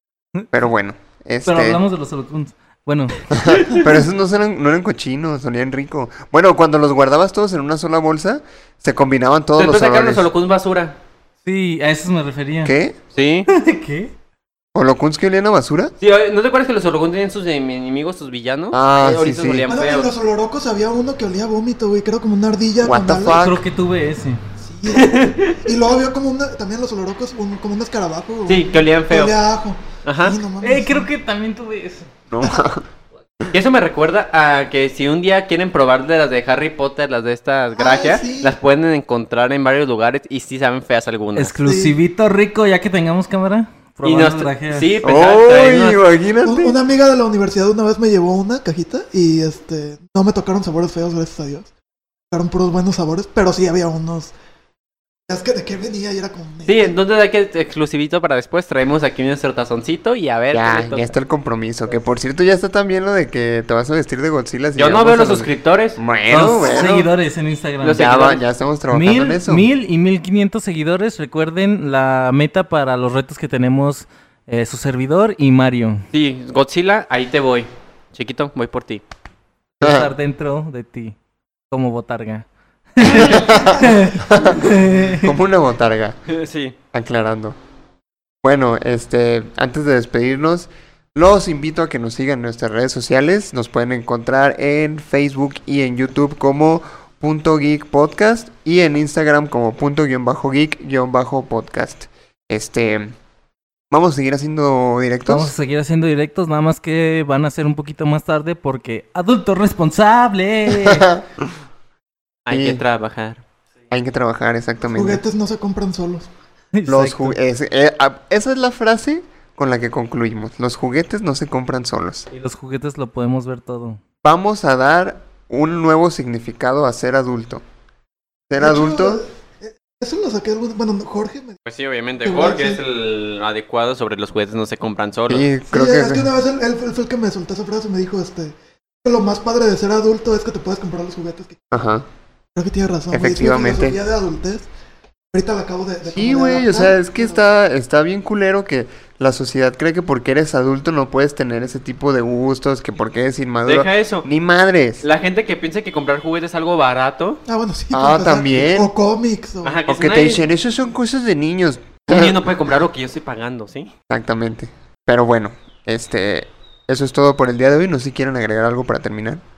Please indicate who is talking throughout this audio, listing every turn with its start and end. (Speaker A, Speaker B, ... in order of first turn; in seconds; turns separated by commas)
Speaker A: 0.5-1.8, Speaker B: 1.4-3.2, Speaker A: 3.3-10.3, Speaker C: 9.6-11.0, Speaker B: 11.4-12.7, Speaker A: 12.6-13.0, Speaker C: 13.2-13.5, Speaker B: 13.5-14.1, Speaker A: 14.8-15.9, Speaker C: 16.0-20.1, Speaker A: 18.7-19.7, Speaker D: 19.7-23.4, Speaker A: 22.8-23.6, Speaker B: 23.3-24.4, Speaker D: 24.6-31.1, Speaker C: 24.9-25.6, Speaker C: 28.5-29.4, Speaker C: 30.1-30.4, Speaker B: 30.6-32.0, Speaker A: 32.3-32.8, Speaker C: 33.5-41.5, Speaker D: 37.8-38.5, Speaker B: 41.4-44.9, Speaker D: 41.6-42.0, Speaker C: 44.0-46.0, Speaker A: 45.0-46.8, Speaker D: 46.5-51.7, Speaker D: 52.3-54.3, Speaker D: 55.3-57.0, Speaker C: 56.7-61.1, Speaker A: 60.5-67.1, Speaker C: 64.8-66.0, Speaker B: 66.3-68.0, Speaker C: 67.8-68.4, Speaker A: 68.0-69.7, Speaker B: 68.9-76.0, Speaker C: 76.1-79.0, Speaker B: 79.8-81.2, Speaker A: 79.8-80.1, Speaker B: 81.7-85.3, Speaker A: 83.0-86.2, Speaker C: 86.3-86.8, Speaker A: 86.9-87.6, Speaker A: 88.4-103.1, Speaker A: 103.9-105.5, Speaker B: 105.2-111.1, Speaker A: 110.7-111.5, Speaker C: 112.5-113.4, Speaker A: 112.5-112.8, Speaker A: 113.9-115.2, Speaker D: 115.0-116.3, Speaker B: 116.7-117.4, Speaker A: 116.9-122.3, Speaker B: 122.3-124.0, Speaker A: 124.2-127.6, Speaker A: 128.5-129.2, Speaker D: 128.6-131.6, Speaker C: 131.7-135.5, Speaker D: 132.2-132.8, Speaker A: 135.3-136.3, Speaker D: 135.7-141.6, Speaker A: 141.7-142.1, Speaker D: 142.6-144.7, Speaker A: 143.1-144.0, Speaker D: 145.3-147.4, Speaker A: 146.1-155.0, Speaker C: 153.7-154.3, Speaker C: 155.0-157.4, Speaker D: 157.5-159.8, Speaker A: 157.9-158.9, Speaker C: 159.6-160.4, Speaker A: 159.9-162.4, Speaker C: 162.1-163.9, Speaker A: 164.1-169.4